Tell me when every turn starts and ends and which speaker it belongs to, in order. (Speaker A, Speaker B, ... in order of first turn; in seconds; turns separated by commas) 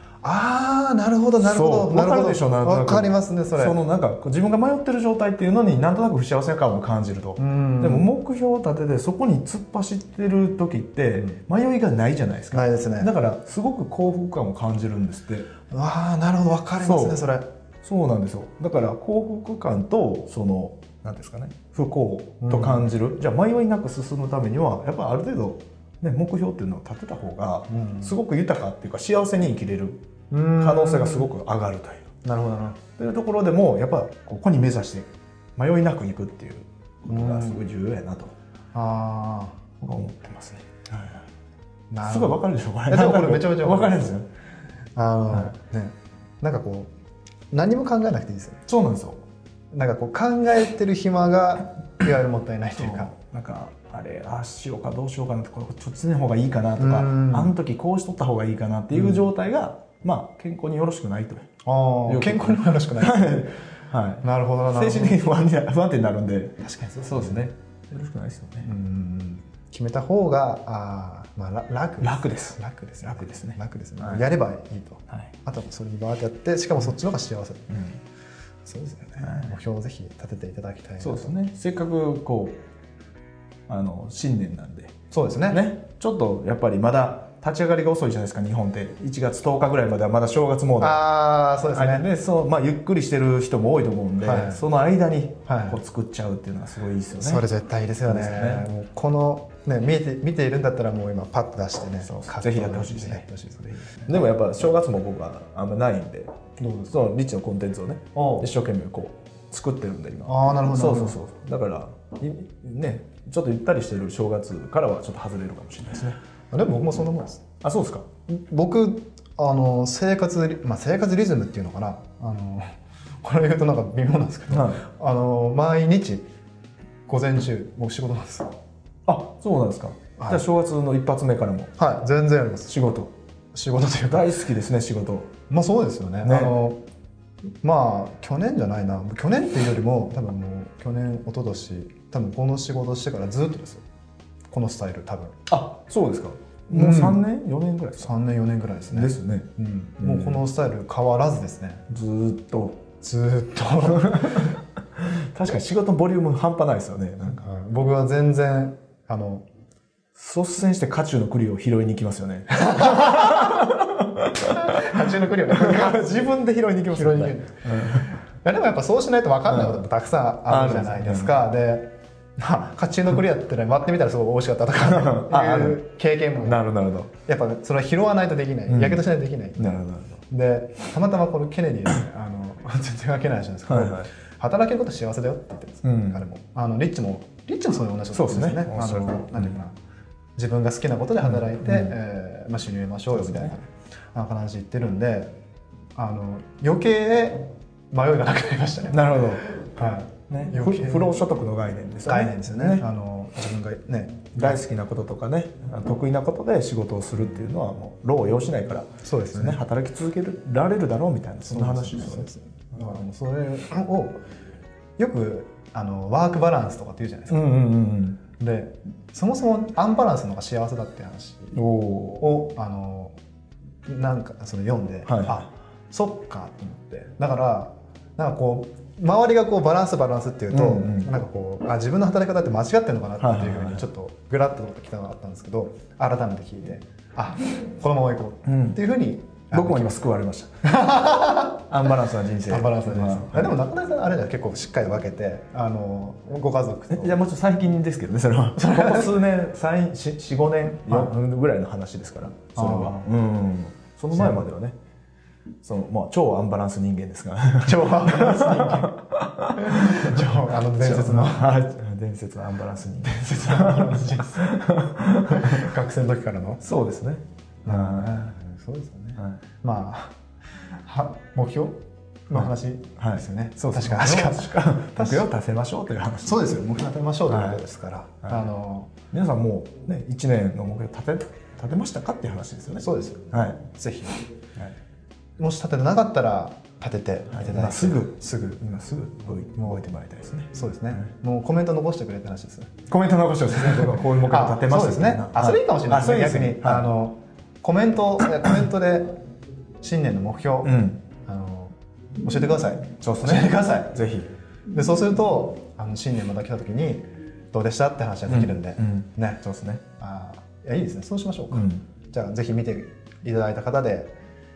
Speaker A: 0.2-3.8, Speaker B: 1.4-15.5, Speaker A: 7.4-8.1, Speaker A: 12.5-13.1, Speaker A: 15.7-17.5, Speaker B: 16.8-17.3, Speaker B: 17.8-30.1, Speaker A: 22.4-22.9, Speaker A: 27.7-28.2, Speaker A: 30.3-31.3, Speaker B: 30.6-32.1, Speaker A: 32.2-32.8, Speaker B: 33.0-38.3, Speaker A: 37.1-37.6, Speaker A: 38.7-39.6, Speaker B: 39.8-41.3, Speaker A: 41.9-44.2, Speaker B: 42.0-44.3, Speaker A: 45.0-46.9, Speaker A: 47.5-48.6, Speaker B: 48.7-49.2, Speaker A: 49.7-53.1, Speaker B: 52.8-61.5, Speaker A: 56.8-57.5, Speaker A: 58.9-59.2, Speaker A: 61.6-63.5, Speaker B: 62.1-68.7, Speaker A: 64.2-65.2, Speaker A: 66.6-67.5, Speaker A: 68.7-77.7, Speaker B: 72.0-74.2, Speaker B: 77.7-78.0, Speaker A: 78.7-81.3, Speaker B: 79.2-79.5, Speaker B: 81.0-82.6, Speaker B: 83.7-85.0, Speaker A: 85.1-85.6, Speaker B: 85.5-91.0, Speaker A: 90.8-92.1, Speaker B: 91.7-97.5, Speaker A: 94.2-94.6, Speaker A: 95.5-95.8, Speaker A: 97.2-104.3, Speaker B: 98.1-98.7, Speaker B: 102.0-103.2, Speaker B: 104.0-106.3, Speaker A: 106.6-107.0, Speaker B: 106.9-116.2, Speaker A: 108.2-108.5, Speaker A: 110.3-111.2, Speaker A: 116.5-117.4, Speaker B: 117.6-118.1, Speaker A: 118.3-126.3, Speaker B: 124.5-124.8, Speaker A: 127.1-128.6, Speaker B: 129.1-131.8, Speaker A: 130.2-130.5, Speaker A: 131.8-132.8, Speaker B: 132.7-133.1, Speaker A: 133.5-134.4, Speaker B: 134.1-135.3, Speaker A: 135.5-136.8, Speaker B: 136.2-136.6, Speaker A: 137.6-143.8, Speaker A: 144.5-145.4, Speaker B: 145.5-148.1, Speaker A: 146.7-147.2, Speaker A: 148.0-151.8, Speaker B: 148.9-149.5, Speaker B: 150.0-150.5, Speaker B: 151.9-152.8, Speaker A: 153.0-154.6, Speaker B: 153.9-157.4, Speaker A: 157.2-159.5, Speaker B: 160.2-168.1, Speaker A: 162.5-163.7, Speaker A: 164.4-166.3, Speaker A: 166.9-176.6, Speaker B: 169.5-169.9, Speaker B: 170.5-171.4, Speaker B: 174.8-175.8, Speaker B: 176.4-177.1, Speaker A: 177.2-189.8, Speaker B: 178.7-179.0, Speaker B: 179.6-180.2, Speaker B: 183.7-184.1, Speaker B: 185.8-186.2, Speaker B: 188.1-189.6, Speaker A: 190.4-195.3, Speaker B: 191.2-191.9, Speaker B: 193.1-193.5, Speaker A: 196.0-201.2, Speaker B: 198.9-199.5, Speaker B: 200.3-202.8, Speaker A: 202.1-204.6, Speaker B: 204.3-212.3, Speaker A: 209.0-209.6, Speaker A: 211.4-214.2, Speaker A: 215.0-217.5, Speaker B: 217.3-218.2, Speaker A: 218.4-221.6, Speaker B: 221.5-222.3, Speaker A: 222.2-223.2, Speaker A: 223.9-240.0, Speaker B: 225.1-225.4, Speaker B: 230.5-231.1, Speaker B: 233.2-233.9, Speaker B: 238.4-238.8, Speaker B: 239.5-240.7, Speaker A: 240.6-241.9, Speaker B: 241.6-243.6, Speaker A: 242.4-247.2, Speaker B: 246.9-254.8, Speaker A: 248.6-249.2, Speaker A: 250.9-251.1, Speaker A: 252.6-253.1, Speaker A: 254.1-254.5, Speaker B: 255.6-265.7, Speaker A: 257.6-259.0, Speaker A: 259.5-261.6, Speaker A: 263.3-264.6, Speaker A: 265.2-266.6, Speaker B: 266.6-268.3, Speaker A: 267.6-270.1, Speaker A: 270.8-275.3, Speaker B: 272.3-276.6, Speaker A: 276.2-278.9, Speaker B: 277.3-277.6, Speaker B: 279.1-283.6, Speaker A: 282.8-284.2, Speaker A: 285.4-288.6, Speaker B: 287.3-291.1, Speaker A: 290.5-292.8, Speaker B: 292.9-296.9, Speaker A: 293.5-299.1, Speaker A: 299.8-303.9, Speaker B: 300.6-301.0, Speaker B: 303.0-304.3, Speaker A: 304.7-309.4, Speaker B: 308.3-309.8, Speaker A: 310.0-314.1, Speaker B: 311.5-311.8